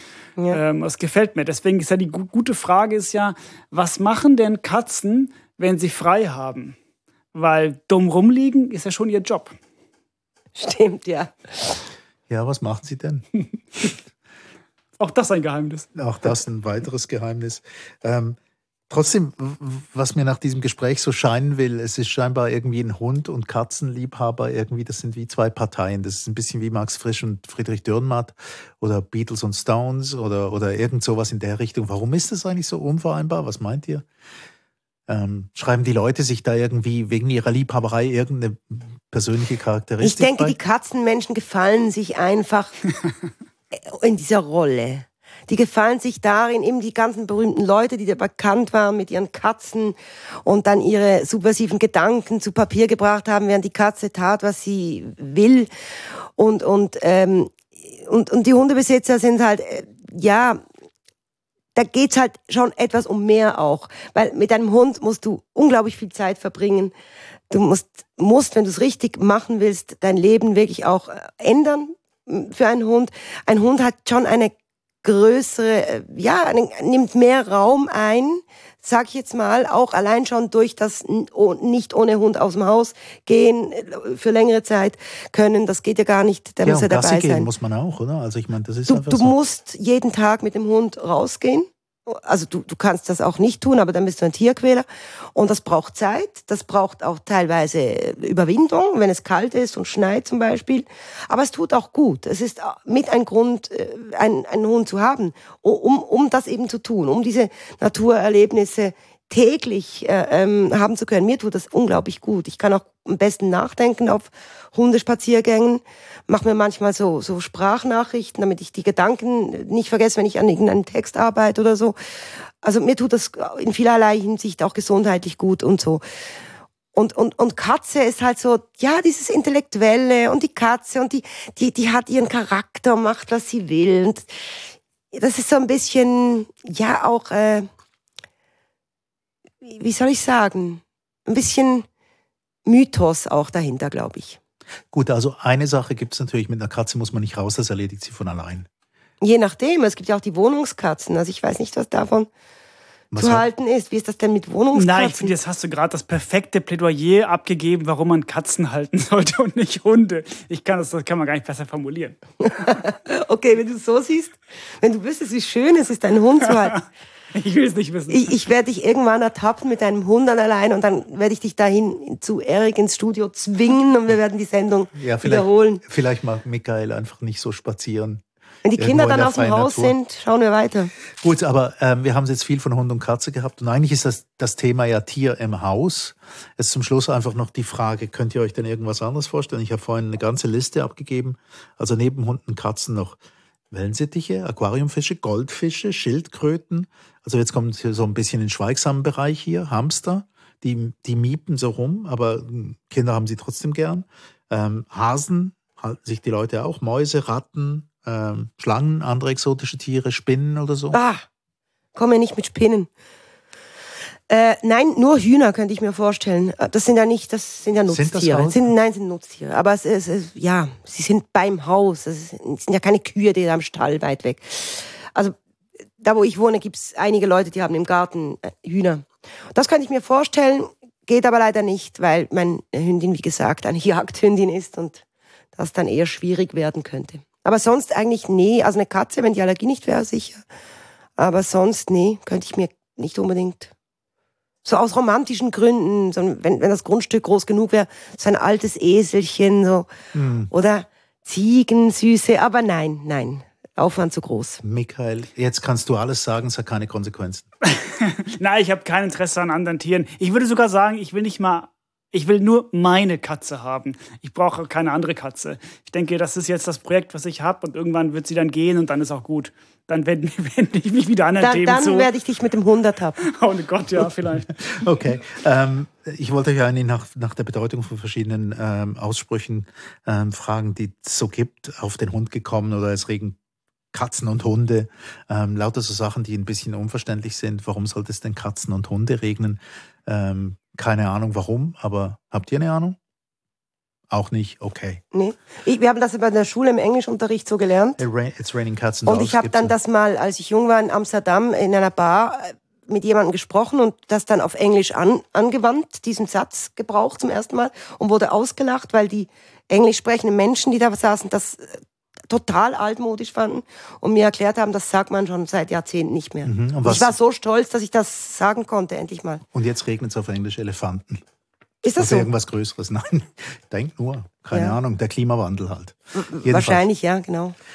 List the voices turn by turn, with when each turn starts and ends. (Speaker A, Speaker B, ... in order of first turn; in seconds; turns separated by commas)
Speaker A: 0.5-6.8, Speaker A: 7.3-9.6, Speaker B: 10.6-11.8, Speaker C: 12.3-13.3, Speaker A: 15.0-15.9, Speaker C: 15.9-18.4, Speaker C: 18.9-34.1, Speaker C: 35.1-40.6, Speaker B: 40.0-42.7, Speaker B: 43.7-55.7, Speaker B: 56.4-60.6, Speaker B: 61.8-66.9, Speaker B: 67.5-87.5, Speaker C: 86.6-89.3, Speaker B: 88.9-122.0, Speaker B: 122.6-126.0, Speaker B: 126.9-134.3, Speaker B: 135.1-137.7, Speaker B: 139.6-141.9, Speaker B: 142.7-144.4, Speaker C: 144.9-148.7, Speaker B: 149.2-152.3, Speaker C: 153.1-153.5, Speaker B: 153.2-155.3, Speaker A: 154.7-162.2, Speaker B: 162.4-166.8, Speaker A: 167.3-168.3, Speaker B: 168.1-175.8, Speaker C: 174.9-178.2, Speaker B: 178.7-180.9, Speaker C: 178.8-179.9, Speaker C: 181.2-193.2, Speaker C: 193.7-211.0, Speaker B: 210.9-211.2, Speaker B: 211.9-212.9, Speaker B: 214.3-225.4, Speaker C: 217.9-218.7, Speaker B: 226.0-235.0, Speaker B: 235.6-240.4, Speaker B: 241.2-243.7, Speaker B: 244.6-249.9, Speaker C: 250.1-250.5, Speaker B: 250.5-254.6, Speaker C: 254.6-257.5, Speaker A: 257.7-272.1, Speaker B: 271.4-273.2, Speaker A: 273.2-274.5, Speaker C: 274.6-283.4, Speaker C: 283.9-293.0, Speaker C: 294.1-295.0, Speaker B: 295.1-298.0, Speaker C: 298.0-299.8, Speaker B: 299.1-319.4, Speaker C: 316.4-317.1, Speaker C: 319.5-321.2, Speaker B: 321.8-322.3, Speaker C: 322.0-326.9, Speaker B: 324.5-324.8, Speaker B: 326.1-327.6